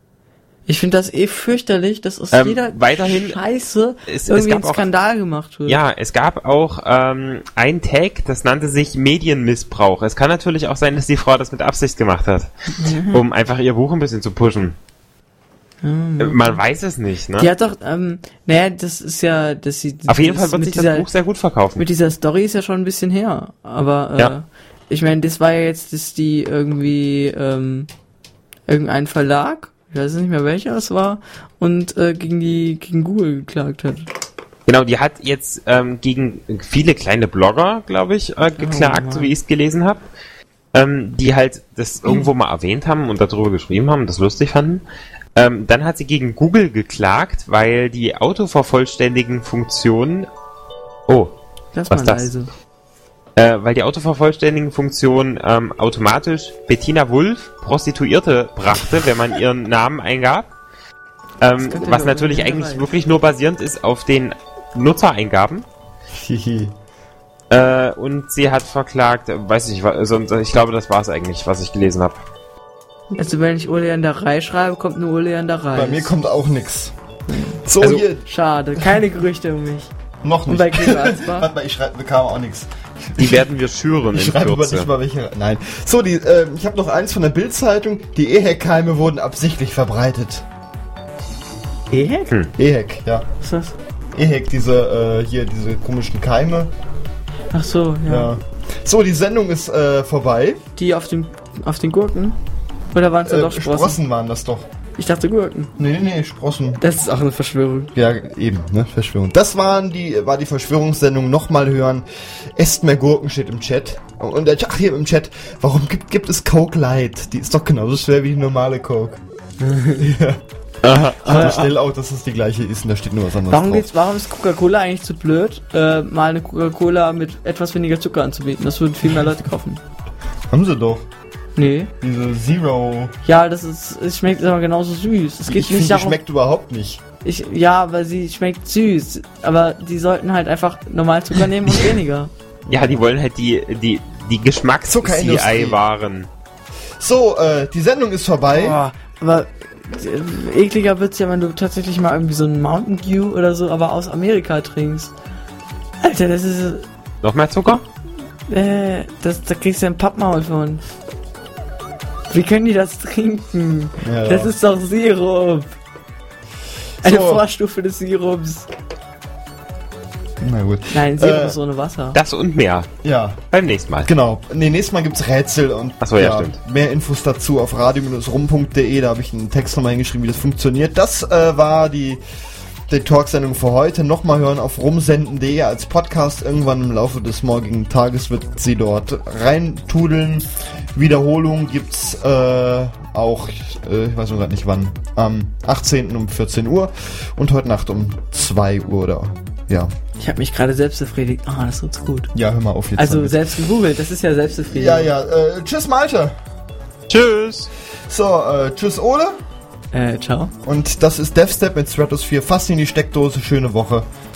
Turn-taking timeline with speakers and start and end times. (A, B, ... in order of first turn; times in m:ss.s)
0:00.7-0:05.8 A
0:02.3-0:03.4 B
0:04.1-0:04.9 B
0:05.7-0:12.5 B
0:12.8-0:13.2 A
0:13.1-0:14.8 B
0:15.8-0:16.6 A
0:16.2-0:17.5 B
0:17.4-0:21.1 A
0:20.1-0:21.8 B
0:21.8-0:27.9 A
0:28.7-0:34.1 A
0:34.7-0:40.0 B
0:38.6-0:39.3 A
0:40.7-0:44.8 B
0:45.3-0:50.3 B
0:51.1-0:51.4 B
0:51.7-0:52.5 A
0:51.9-0:52.3 B
0:53.4-1:00.5 B
1:01.4-1:05.6 B
1:01.6-1:02.9 A
1:06.1-1:06.7 C
1:07.5-1:12.2 B
1:13.1-1:16.1 A
1:15.7-1:16.9 C
1:17.3-1:19.9 A
1:17.6-1:18.2 C
1:20.2-1:23.5 C
1:20.5-1:21.5 A
1:23.2-1:24.9 B
1:24.1-1:30.4 C
1:31.9-1:32.3 A
1:32.6-1:33.3 C
1:33.4-1:33.8 A
1:34.1-1:36.7 C
1:37.5-1:38.3 A
1:38.0-1:40.6 C
1:40.8-1:42.4 A
1:42.9-1:44.0 A
1:43.2-1:44.7 C
1:45.0-1:45.7 A
1:45.8-1:46.8 C
1:46.8-1:47.9 A
1:47.9-1:59.2 C
1:59.6-2:00.1 A
2:00.0-2:00.4 C
2:00.8-2:01.2 B
2:01.2-2:01.7 A
2:01.2-2:03.9 C
2:03.5-2:09.8 A
2:10.5-2:11.1 C
2:11.6-2:11.9 A
2:12.0-2:13.1 C
2:13.2-2:16.2 A
2:15.4-2:17.0 C
2:17.2-2:22.3 A
2:22.7-2:23.0 C
2:22.7-2:26.3 B
2:24.8-2:25.8 C
2:27.0-2:28.8 C
2:28.5-2:35.1 A
2:36.0-2:36.9 A
2:37.2-2:37.8 B
2:38.5-2:40.8 A
2:42.3-2:45.7 A
2:44.0-2:44.5 C
2:47.0-2:47.4 C
2:47.0-2:48.7 A
2:50.4-2:51.6 C
2:50.9-2:52.2 A
2:52.1-2:52.9 B
2:53.0-2:53.4 C
2:53.5-2:54.1 B
2:54.0-3:02.2 C
2:56.0-2:56.6 B
3:02.9-3:19.9 C
3:20.2-3:22.3 A
3:22.3-3:23.7 C
3:23.0-3:25.1 A
3:24.7-3:26.3 C
3:27.1-3:27.7 B
3:28.1-3:29.4 C
3:29.9-3:30.5 A
3:30.6-3:34.1 C